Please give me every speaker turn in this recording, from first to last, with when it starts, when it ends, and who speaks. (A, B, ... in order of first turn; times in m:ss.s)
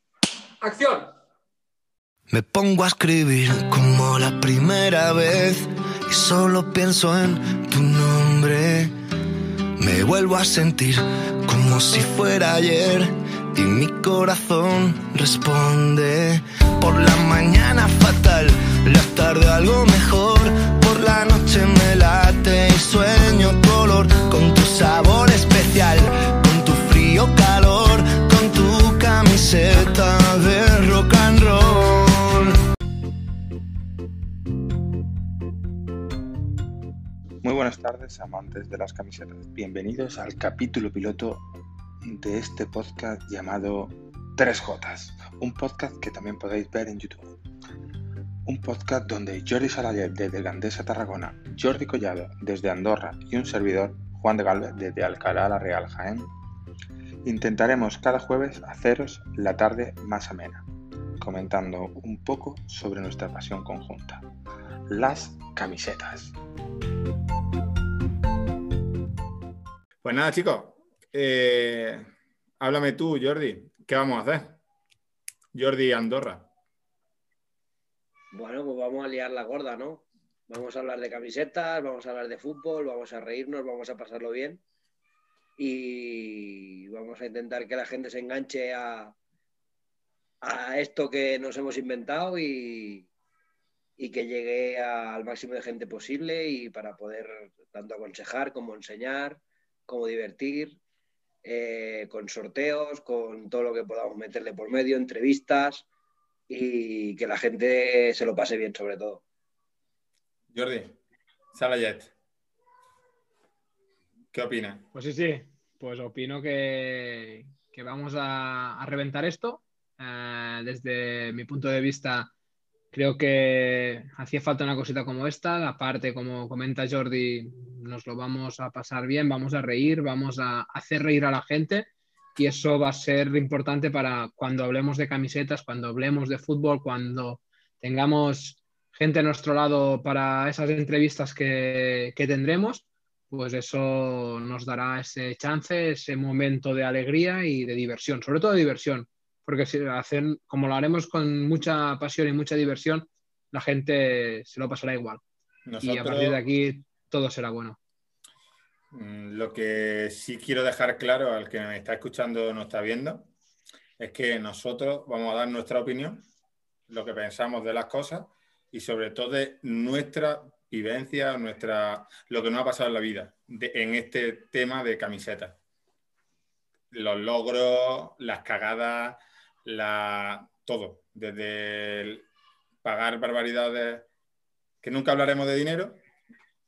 0:00.6-0:01.1 A
0:02.3-0:08.9 B
0:09.8-0:32.5 B
0:37.4-0:41.4 C
0:42.0-0:47.3 C
0:48.4-0:56.3 C
0:57.2-1:00.6 C
1:01.2-1:04.3 C
1:04.9-1:06.4 C
1:10.0-1:12.1 D
1:12.6-1:14.6 D
1:15.5-1:16.5 D
1:18.3-1:24.6 E
1:25.6-1:29.1 E
1:30.4-1:33.1 E
1:34.0-1:40.8 E
1:41.4-1:45.9 E
1:46.5-1:49.2 E
1:50.5-1:51.0 D
1:51.5-1:52.1 D
1:54.3-1:54.9 D
1:54.9-2:02.3 A
2:02.9-2:35.2 A
2:35.7-2:36.4 D
2:35.8-2:37.8 A
2:38.9-2:43.3 D
2:44.0-2:46.2 D
2:46.9-2:55.6 D
2:56.9-3:02.2 D
3:02.8-3:04.1 D
3:04.8-3:06.0 D